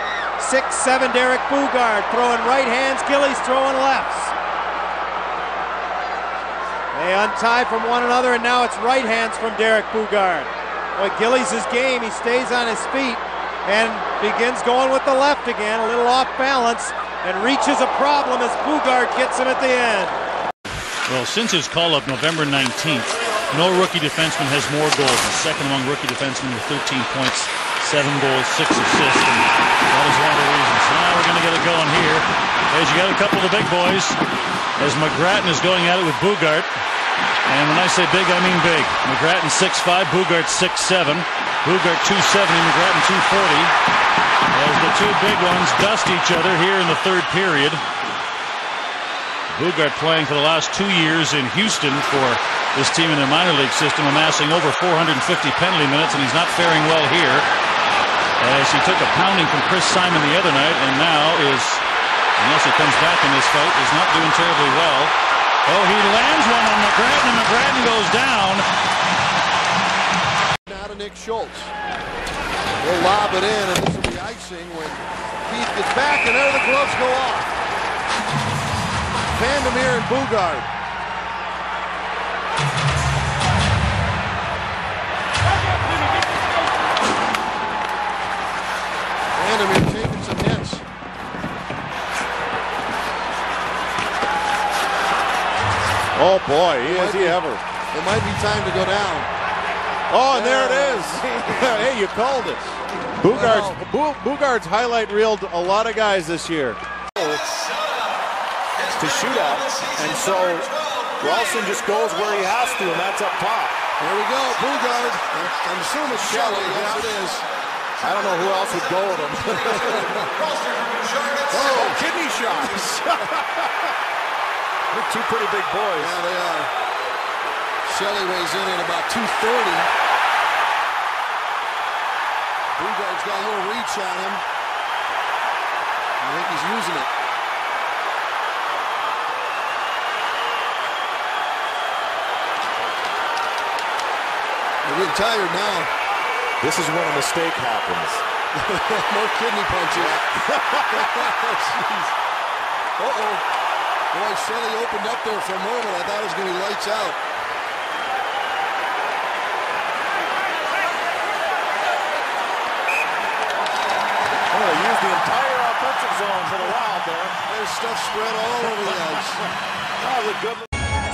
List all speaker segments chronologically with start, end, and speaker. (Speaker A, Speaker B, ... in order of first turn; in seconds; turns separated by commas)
Speaker A: 0.4-4.3, Speaker A: 6.9-20.1, Speaker B: 21.1-34.2, Speaker B: 34.8-36.7, Speaker B: 37.5-43.7, Speaker B: 44.5-47.8, Speaker B: 49.5-57.5, Speaker B: 58.4-61.8, Speaker B: 62.4-65.1, Speaker B: 65.7-68.7, Speaker C: 70.7-71.7, Speaker C: 72.8-77.5, Speaker C: 79.3-80.7, Speaker C: 89.3-90.8, Speaker D: 96.1-97.6, Speaker C: 96.8-97.4, Speaker C: 97.9-99.3, Speaker D: 100.1-106.8, Speaker C: 100.3-101.1, Speaker C: 103.3-103.8, Speaker E: 109.0-110.7, Speaker E: 111.2-113.7, Speaker C: 114.0-117.4, Speaker E: 116.5-117.0, Speaker E: 118.1-118.4, Speaker E: 119.0-119.9, Speaker C: 119.7-120.2, Speaker C: 121.5-122.0, Speaker E: 121.5-123.0, Speaker E: 124.9-126.0, Speaker C: 126.0-126.7, Speaker C: 127.8-129.9, Speaker C: 132.7-134.4, Speaker C: 136.2-137.1, Speaker C: 144.8-145.9, Speaker C: 148.6-150.2, Speaker D: 149.9-150.2, Speaker C: 150.9-152.1, Speaker C: 153.0-153.4, Speaker C: 154.1-157.2, Speaker E: 164.5-167.3, Speaker C: 167.5-169.4, Speaker E: 170.0-170.6